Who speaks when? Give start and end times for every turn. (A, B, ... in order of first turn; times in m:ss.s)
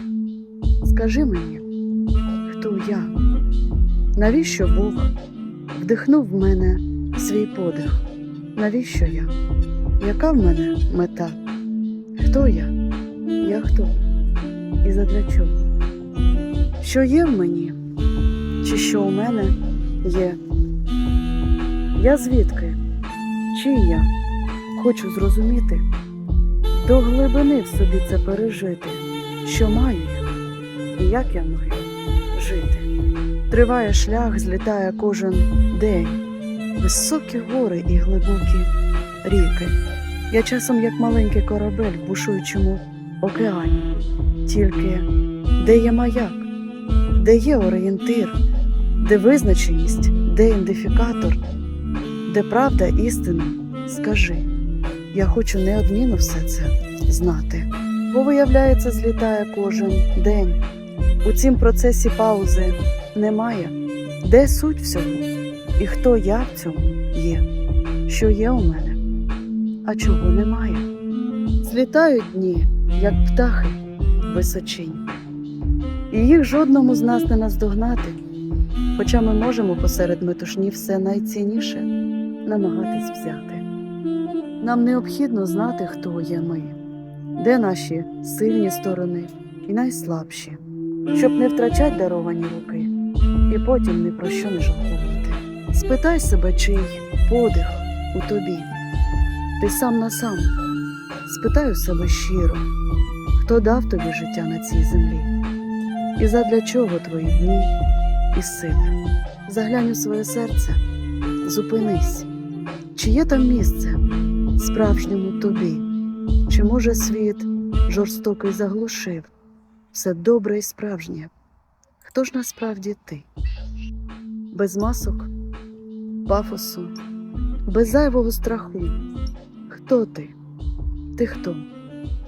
0:00.8-0:01.6 A
0:02.4-0:03.1 A
0:04.2-0:05.1 A
0:05.7-0:08.0 A
0:08.6-0:09.3 A
0:10.0-0:11.4 A
0:12.2-0:12.7 A
0:13.4-0:14.0 A
0:14.8-0:15.6 A
0:16.8-0:17.8 A
0:18.6-0:20.4 A
0:22.0-0:22.8 A
0:23.5-0:24.1 A
0:24.7-0:25.8 A
0:26.7-0:30.2 A
0:31.0-0:32.9 A
0:33.5-0:36.2 A
0:36.8-0:38.7 A
0:39.2-0:39.8 A
0:40.3-0:43.9 A
0:44.4-0:45.1 A
0:45.6-0:46.5 A
0:47.2-0:48.4 A
0:49.0-0:51.4 A
0:52.2-0:54.5 A
0:55.1-1:00.6 A
1:01.2-1:07.5 A
1:08.1-1:09.0 A
1:09.8-1:10.9 A
1:11.6-1:15.1 A
1:16.1-1:18.2 A
1:18.9-1:21.9 A
1:22.4-1:23.6 A
1:24.6-1:26.8 A
1:27.4-1:30.6 A
1:31.1-1:32.9 A
1:33.5-1:38.7 A
1:39.6-1:40.5 A
1:41.2-1:42.7 A
1:43.4-1:45.3 A
1:46.2-1:47.7 A
1:48.3-1:48.9 A
1:49.5-1:50.8 A
1:51.4-1:52.3 A
1:52.9-1:54.0 A
1:54.6-1:55.8 A
1:56.5-1:59.3 A
1:59.9-2:01.3 A
2:02.0-2:03.3 A
2:04.5-2:05.3 A
2:06.3-2:06.9 A
2:07.7-2:09.0 A
2:09.7-2:10.3 A
2:11.2-2:11.6 A